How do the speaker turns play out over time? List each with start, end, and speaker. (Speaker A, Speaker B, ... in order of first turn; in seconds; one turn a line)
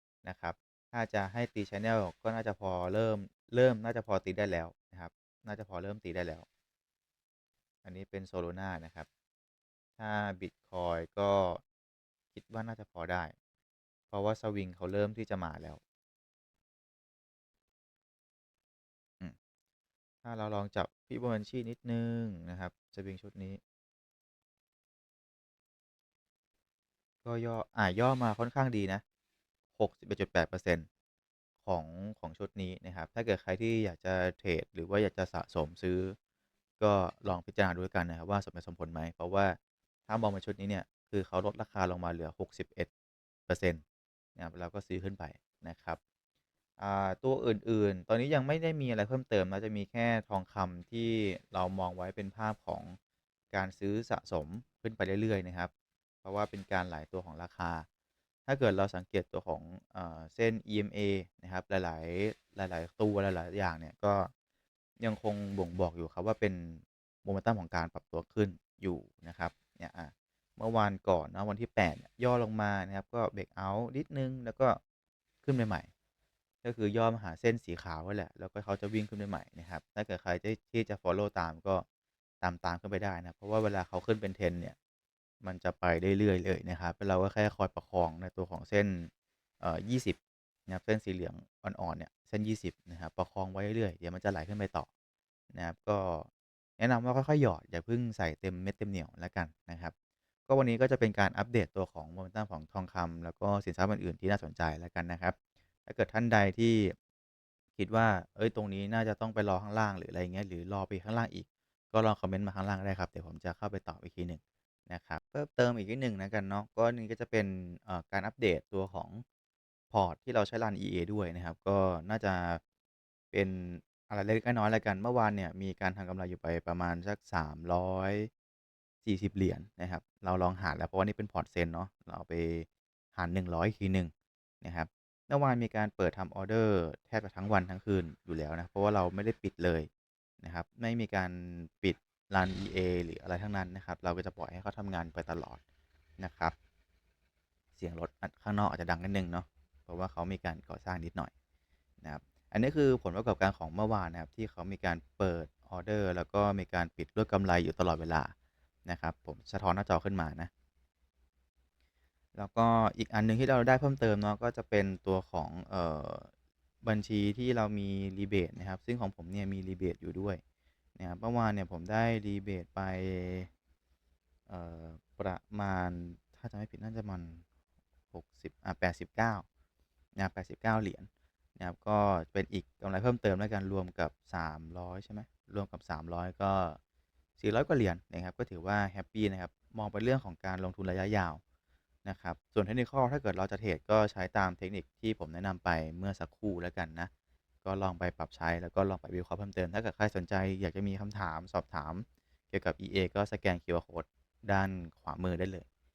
Speaker A: 0.2-6.4
Speaker A: 7.8-9.1
Speaker A: 10.0-11.6
Speaker A: 12.3-13.3
Speaker A: 14.1-15.8
Speaker A: 20.2-23.6
Speaker A: 27.2-29.0
Speaker A: 29.8-30.9
Speaker A: 31.6-36.1
Speaker A: 36.8-39.6
Speaker A: 40.1-42.9
Speaker A: 43.5-43.8
Speaker A: 44.4-46.0
Speaker A: 46.8-53.0
Speaker A: 53.5-55.7
Speaker A: 56.2-57.9
Speaker A: 58.5-64.3
Speaker A: 65.0-74.8
Speaker A: 75.4-75.9
Speaker A: 76.6-81.8
Speaker A: 82.4-84.8
Speaker A: 85.4-89.1
Speaker A: 89.6-94.9
Speaker A: 95.5-99.9
Speaker A: 100.5-106.9
Speaker A: 107.8-119.2
Speaker A: 119.9-122.6
Speaker A: 123.3-128.3
Speaker A: 129.0-134.1
Speaker A: 134.6-139.9
Speaker A: 140.4-145.6
Speaker A: 146.2-146.5
Speaker A: 147.8-151.3
Speaker A: 152.0-158.3
Speaker A: 158.8-160.5
Speaker A: 162.3-166.3
Speaker A: 166.8-170.4
Speaker A: 171.0-173.5
Speaker A: 174.5-177.4
Speaker A: 178.1-179.4
Speaker A: 180.2-186.8
Speaker A: 187.4-191.4
Speaker A: 192.0-197.1
Speaker A: 197.6-205.7